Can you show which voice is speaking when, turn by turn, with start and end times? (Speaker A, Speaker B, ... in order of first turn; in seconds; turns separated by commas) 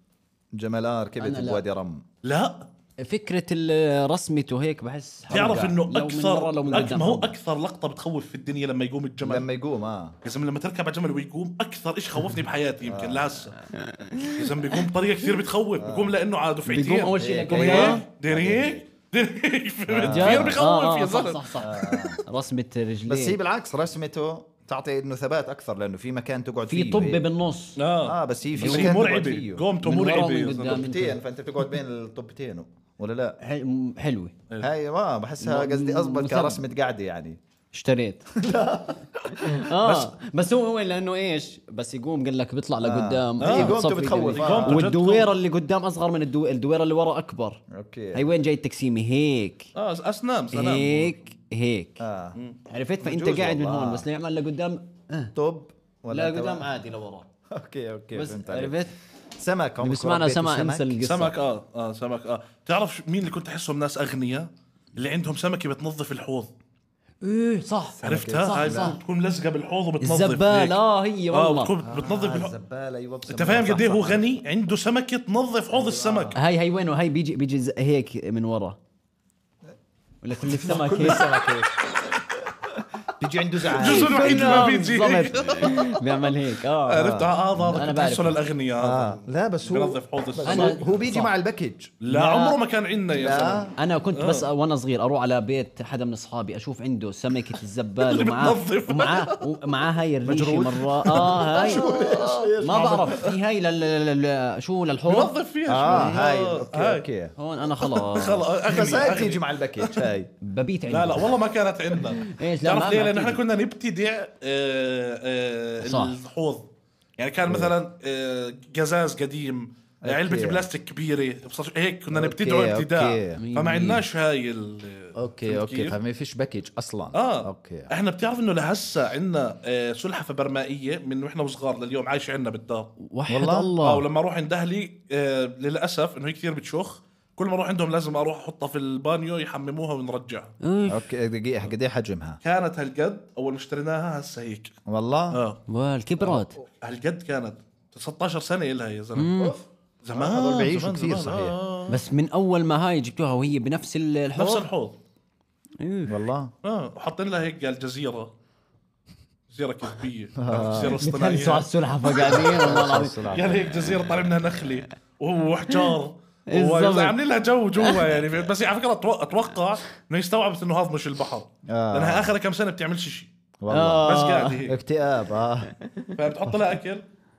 Speaker A: 0.5-2.0, Speaker B: 1.2-1.6, Speaker C: 2.2-2.7, Speaker B: 3.0-7.3, Speaker C: 5.3-9.4, Speaker A: 9.2-10.2, Speaker C: 10.2-13.6, Speaker A: 12.8-13.3, Speaker B: 13.6-14.7, Speaker C: 14.3-22.1, Speaker A: 15.8-16.1, Speaker B: 16.7-18.0, Speaker A: 17.1-18.8, Speaker A: 19.9-20.6, Speaker B: 20.1-23.4, Speaker A: 21.6-22.2, Speaker A: 23.1-27.2, Speaker B: 26.7-27.8, Speaker C: 27.8-30.8, Speaker A: 28.0-29.6, Speaker B: 28.6-29.0, Speaker B: 29.8-31.2, Speaker A: 30.6-33.4, Speaker B: 33.4-34.3, Speaker A: 34.6-37.4, Speaker B: 35.4-36.6, Speaker B: 37.7-38.3, Speaker A: 38.3-39.6, Speaker B: 39.3-47.6, Speaker C: 39.7-40.1, Speaker A: 42.8-44.8, Speaker C: 43.4-43.8, Speaker C: 44.3-45.3, Speaker A: 47.7-48.2, Speaker B: 48.1-49.7, Speaker C: 49.7-51.2, Speaker B: 50.5-52.0, Speaker A: 52.0-52.4, Speaker B: 52.7-55.3, Speaker A: 53.0-54.0, Speaker A: 55.3-56.7, Speaker B: 56.1-57.3, Speaker A: 57.5-58.8, Speaker B: 58.1-58.9, Speaker A: 59.4-61.0, Speaker B: 59.8-61.3, Speaker C: 61.0-66.5, Speaker B: 67.2-69.0, Speaker A: 68.0-69.0, Speaker C: 68.0-70.8, Speaker B: 70.0-71.7, Speaker C: 71.3-72.5, Speaker A: 71.8-74.2, Speaker C: 73.3-76.3, Speaker A: 75.7-76.4, Speaker B: 76.3-78.8, Speaker B: 80.2-81.3, Speaker A: 80.5-81.7, Speaker C: 80.9-81.2, Speaker A: 83.2-84.7, Speaker C: 83.7-86.3, Speaker B: 83.8-88.4, Speaker C: 86.9-90.9, Speaker A: 87.6-87.8, Speaker A: 88.8-91.9, Speaker B: 90.5-91.3, Speaker C: 92.0-94.5, Speaker B: 92.1-92.6, Speaker A: 93.2-93.7, Speaker B: 93.8-101.9, Speaker C: 98.0-99.4, Speaker A: 100.2-103.2, Speaker C: 101.0-103.3, Speaker B: 102.6-106.2, Speaker C: 105.1-107.0, Speaker A: 105.7-107.3, Speaker B: 107.3-108.6, Speaker C: 107.8-110.0, Speaker A: 108.7-110.3, Speaker B: 110.4-111.3, Speaker C: 110.9-116.7, Speaker B: 112.2-113.4, Speaker B: 115.8-116.2, Speaker C: 117.2-126.0, Speaker A: 117.5-117.7, Speaker A: 120.0-120.6, Speaker A: 122.1-123.4, Speaker B: 123.4-124.0, Speaker A: 125.2-127.9, Speaker C: 127.1-132.9, Speaker B: 133.0-134.1, Speaker A: 133.3-133.7, Speaker C: 133.8-140.5, Speaker B: 140.6-141.0, Speaker A: 140.9-142.4, Speaker C: 142.4-144.7, Speaker A: 144.8-145.4, Speaker C: 145.3-145.6, Speaker B: 145.7-146.6, Speaker C: 146.8-152.0, Speaker B: 149.2-149.6, Speaker A: 150.1-151.6, Speaker B: 151.9-154.7, Speaker C: 154.3-155.0, Speaker B: 155.8-156.2, Speaker A: 156.1-156.5, Speaker C: 156.6-158.3, Speaker C: 159.5-162.4, Speaker A: 160.4-161.0, Speaker B: 161.0-163.2, Speaker A: 162.2-163.8, Speaker C: 163.3-173.3, Speaker B: 166.5-167.1, Speaker B: 167.8-168.2, Speaker A: 171.7-172.3, Speaker A: 173.6-175.7, Speaker B: 173.7-174.6, Speaker C: 174.0-174.8, Speaker B: 175.8-176.1, Speaker C: 176.2-177.0